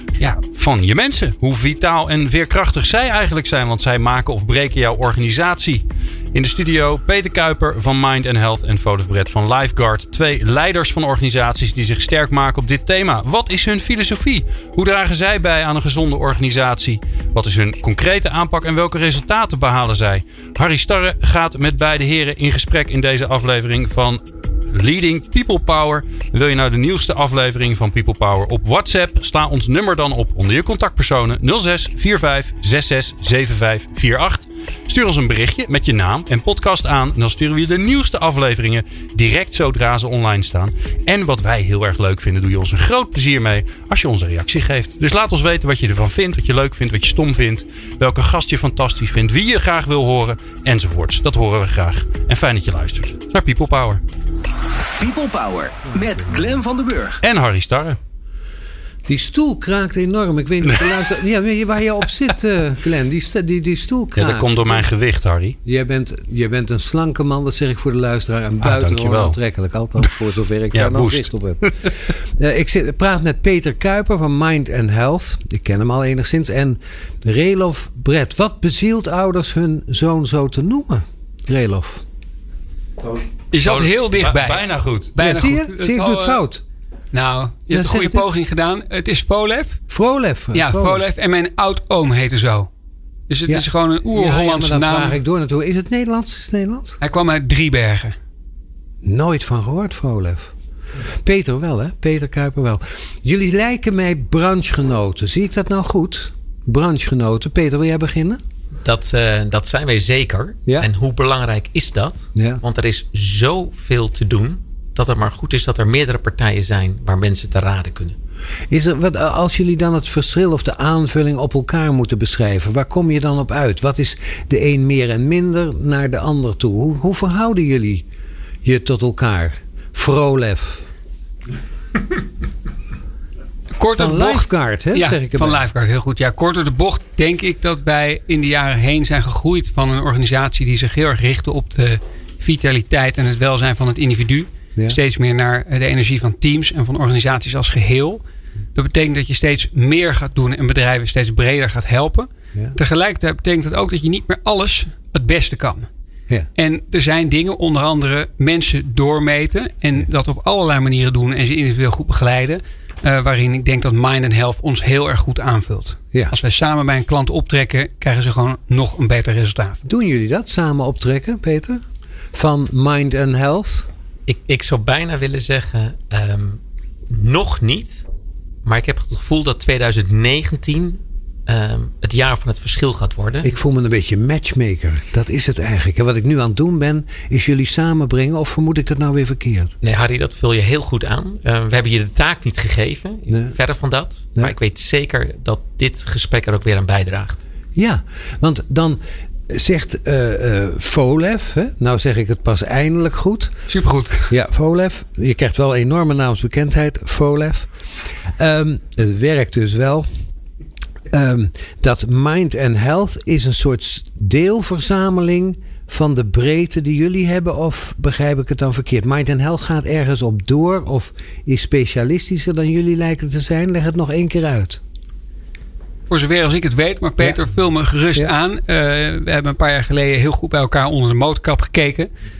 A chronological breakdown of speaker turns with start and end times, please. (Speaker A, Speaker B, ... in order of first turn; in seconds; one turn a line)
Speaker A: 0.4-24.2
Speaker A: 24.7-54.0
Speaker B: 55.0-57.2
Speaker A: 57.2-58.0
Speaker C: 59.0-64.9
Speaker A: 64.2-65.6
Speaker C: 65.6-82.0
Speaker A: 68.6-69.4
Speaker A: 70.7-71.9
Speaker D: 83.5-86.4
Speaker A: 83.6-85.2
Speaker C: 85.2-86.6
Speaker D: 87.1-89.8
Speaker C: 87.7-88.3
Speaker C: 89.9-91.0
Speaker D: 90.5-92.7
Speaker D: 93.3-95.2
Speaker C: 93.5-97.0
Speaker D: 97.0-98.2
Speaker C: 99.0-100.5
Speaker C: 101.2-108.4
Speaker E: 108.8-118.2
Speaker C: 112.3-112.6
Speaker C: 118.7-128.0
Speaker C: 128.6-130.9
Speaker D: 133.8-148.2
Speaker C: 133.9-135.6
Speaker D: 148.7-155.9
Speaker D: 156.6-169.9
Speaker C: 169.9-171.8
Speaker C: 172.3-173.9
Speaker E: 174.3-178.0
Speaker E: 178.6-183.5
Speaker C: 183.4-189.7
Speaker E: 189.8-197.4
Speaker C: 193.3-193.5
Speaker C: 197.7-203.5
Speaker D: 203.7-204.3
Speaker C: 204.3-207.7
Speaker C: 208.3-210.1
Speaker C: 211.1-224.8
Speaker D: 226.1-232.1